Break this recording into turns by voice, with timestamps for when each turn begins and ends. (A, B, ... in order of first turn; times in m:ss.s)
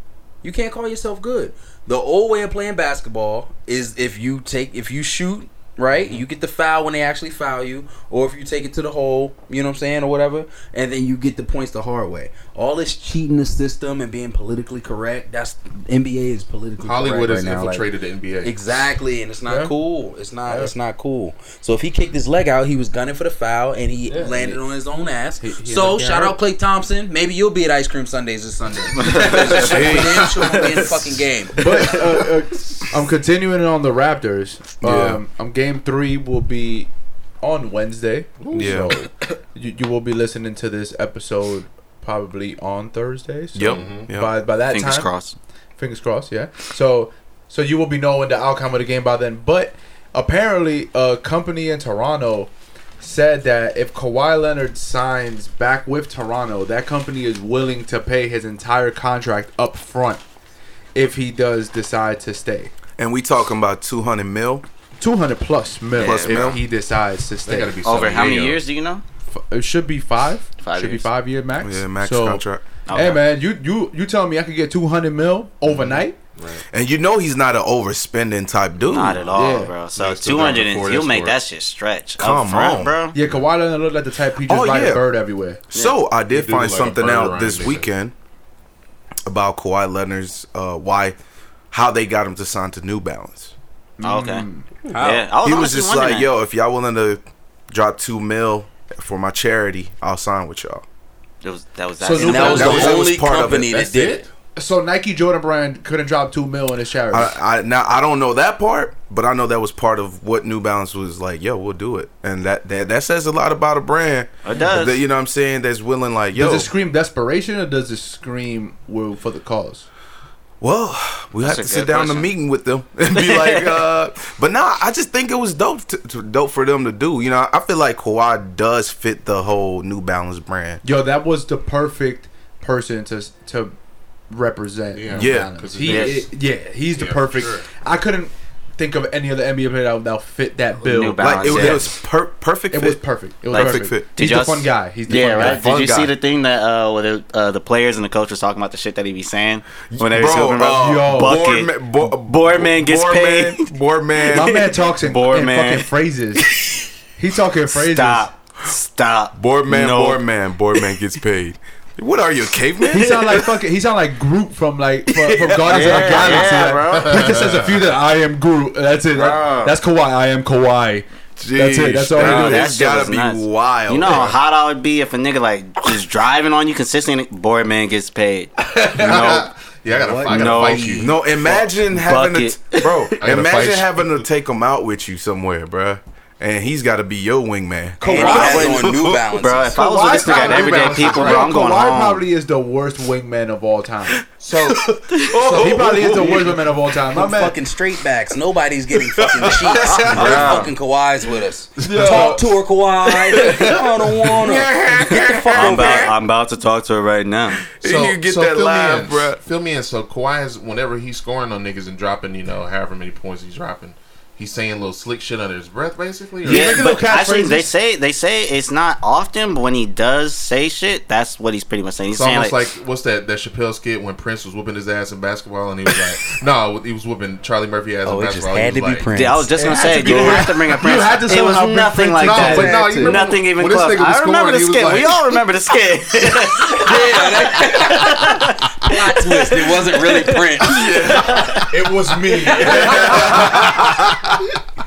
0:00.4-0:17.9 A
0:16.8-0:18.9 B
0:18.4-0:32.0 A
0:19.5-0:19.7 C
0:20.5-0:20.7 C
0:24.1-0:24.6 C
0:25.4-0:26.4 C
0:29.0-0:30.9 D
0:29.5-0:30.4 E
0:31.6-0:36.9 C
0:32.5-0:32.9 B
0:34.8-0:35.2 E
0:37.4-0:45.1 C
0:38.4-0:38.9 B
0:38.5-0:39.0 E
0:43.5-0:44.3 E
0:43.6-0:44.1 B
0:44.7-0:45.4 D
0:45.8-1:00.2 C
1:00.9-1:02.7 C
1:03.0-1:04.6 E
1:05.0-1:07.7 C
1:06.0-1:06.5 D
1:06.0-1:06.6 E
1:07.4-1:08.6 B
1:07.8-1:09.0 D
1:09.3-1:16.2 C
1:10.6-1:11.1 D
1:11.6-1:12.6 E
1:12.9-1:13.2 D
1:15.6-1:16.6 B
1:16.7-1:19.2 E
1:18.9-1:23.1 D
1:19.3-1:19.7 C
1:20.0-1:21.4 B
1:22.2-1:23.0 E
1:23.1-1:25.6 C
1:24.5-1:25.1 E
1:25.7-1:28.1 E
1:26.3-1:27.9 B
1:29.3-1:31.2 E
1:31.7-1:33.5 E
1:34.0-1:34.7 C
1:34.0-1:34.4 D
1:34.9-1:35.3 A
1:35.0-1:36.3 D
1:35.4-1:40.8 E
1:41.4-1:42.9 D
1:42.0-1:42.9 C
1:42.1-1:44.2 A
1:42.4-1:44.3 B
1:42.4-1:43.7 E
1:44.6-1:47.4 C
1:47.1-1:56.7 E
1:54.4-1:55.0 D
1:56.4-1:59.9 C
2:00.6-2:10.8 E
2:01.4-2:02.3 D
2:03.1-2:03.8 D
2:10.8-2:13.8 C
2:14.3-2:21.9 C
2:14.9-2:16.3 B
2:15.1-2:15.5 E
2:15.8-2:16.2 D
2:17.0-2:17.7 B
2:20.8-2:21.9 D
2:21.2-2:24.1 E
2:22.7-2:25.7 C
2:23.5-2:33.7 D
2:25.4-2:26.1 E
2:29.9-2:34.7 E
2:30.7-2:31.4 C
2:34.3-2:36.5 C
2:34.4-2:35.9 D
2:36.4-2:36.8 D
2:37.1-2:38.3 C
2:37.7-2:40.2 D
2:39.4-2:43.4 E
2:42.9-2:52.7 C
2:45.1-2:47.4 D
2:45.7-2:47.8 B
2:45.8-2:46.2 E
2:49.1-2:49.8 E
2:51.4-2:54.4 E
2:52.2-2:59.5 D
2:58.8-2:59.3 C
2:59.0-3:01.6 B
2:59.9-3:01.2 A
3:00.3-3:01.1 D
3:01.0-3:09.2 E
3:01.9-3:03.2 D
3:03.2-3:04.2 B
3:08.0-3:08.8 C
3:08.0-3:09.8 A
3:08.0-3:12.2 D
3:09.8-3:14.3 C
3:09.9-3:11.5 B
3:14.4-3:15.8 B
3:15.1-3:15.4 D
3:15.3-3:16.3 E
3:15.4-3:26.0 A
3:15.5-3:17.6 C
3:19.7-3:20.6 E
3:20.0-3:20.5 B
3:20.1-3:20.7 D
3:21.8-3:22.5 C
3:24.3-3:26.1 E
3:25.5-3:27.6 D
3:25.6-3:26.1 B
3:27.7-3:29.4 E
3:27.8-3:37.0 B
3:36.4-3:37.7 C
3:36.5-3:42.6 D
3:42.1-3:49.1 B
3:48.0-3:49.7 A
3:49.1-4:01.8 D
3:49.6-3:53.2 C
3:50.1-3:50.4 B
3:52.2-3:55.2 B
3:56.8-4:00.9 A
4:00.6-4:01.6 E
4:01.3-4:04.1 C
4:02.3-4:03.3 D
4:02.9-4:04.0 E